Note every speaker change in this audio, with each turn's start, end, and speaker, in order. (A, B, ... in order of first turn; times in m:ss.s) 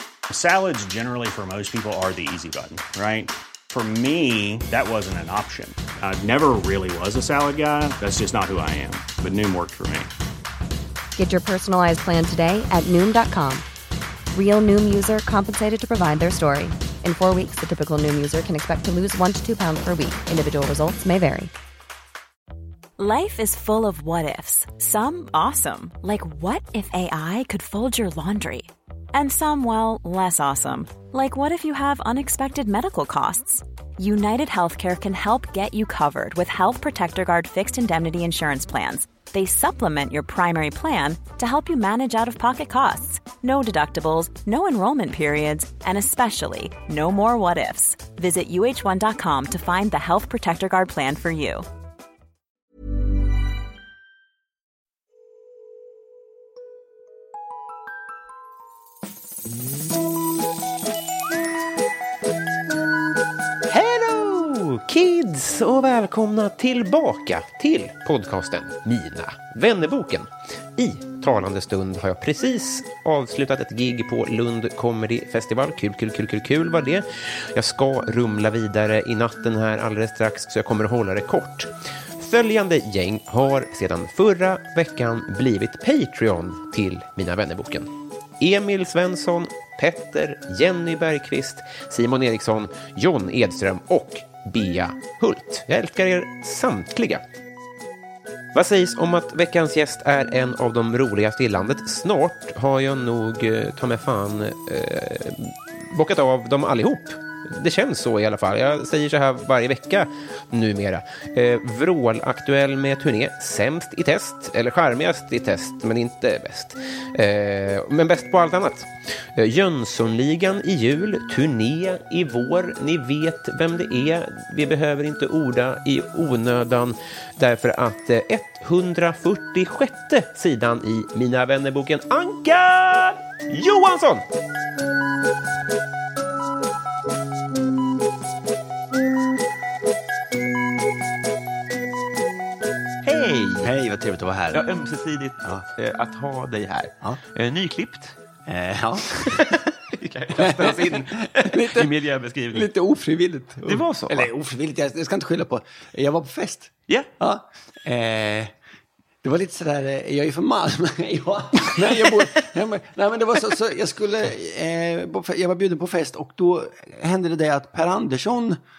0:00.3-0:10.1 A
0:11.2-0:13.6 B
0:14.3-0:21.5 B
0:23.0-0:51.6 C
1:03.7-1:37.2 D
1:38.5-2:14.2 D
2:23.0-2:23.7 D
2:23.6-2:24.6 E
2:24.5-2:28.2 D
2:28.4-2:29.6 E
2:29.2-2:32.7 D
2:30.3-2:31.9 E
2:32.5-2:38.5 E
2:33.6-2:34.3 D
2:39.2-2:48.6 E
2:41.7-2:42.2 D